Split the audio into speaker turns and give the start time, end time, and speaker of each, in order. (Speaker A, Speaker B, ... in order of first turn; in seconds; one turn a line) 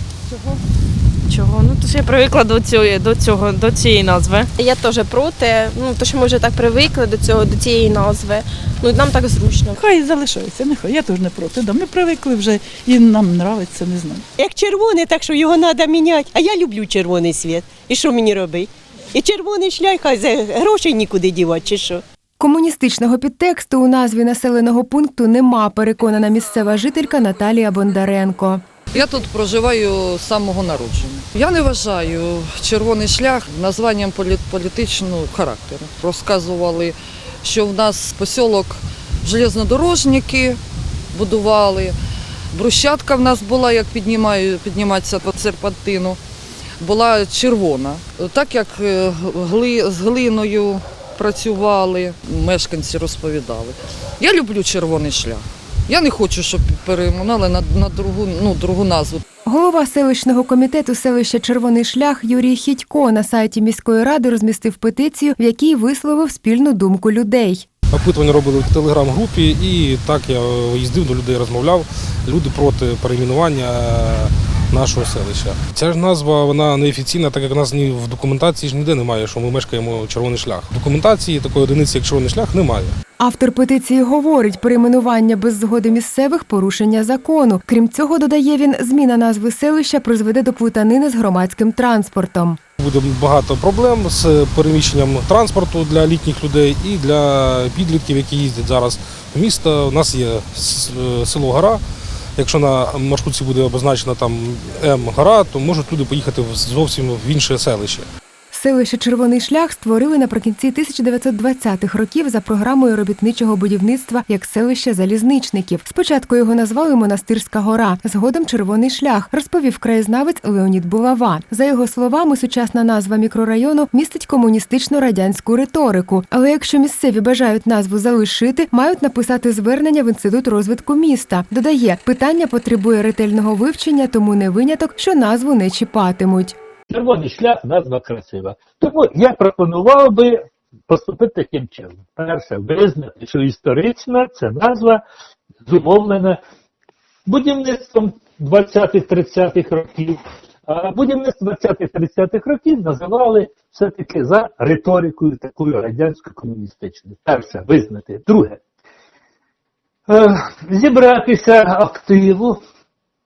Speaker A: 1.3-6.9
Speaker B: 4.6-9.8
Speaker C: 9.7-14.3
Speaker D: 14.4-22.0
Speaker E: 22.4-28.6
Speaker F: 28.9-40.6
Speaker F: 41.1-42.0
Speaker F: 42.5-46.2
Speaker F: 46.8-59.2
Speaker E: 59.5-67.7
Speaker G: 67.9-82.9
Speaker E: 83.2-92.6
Speaker G: 92.8-101.8
Speaker G: 102.4-108.1
Speaker E: 108.5-136.6
Speaker H: 136.9-140.4
Speaker H: 140.9-145.0
Speaker H: 145.7-146.4
Speaker H: 147.3-158.6
Speaker H: 160.1-162.6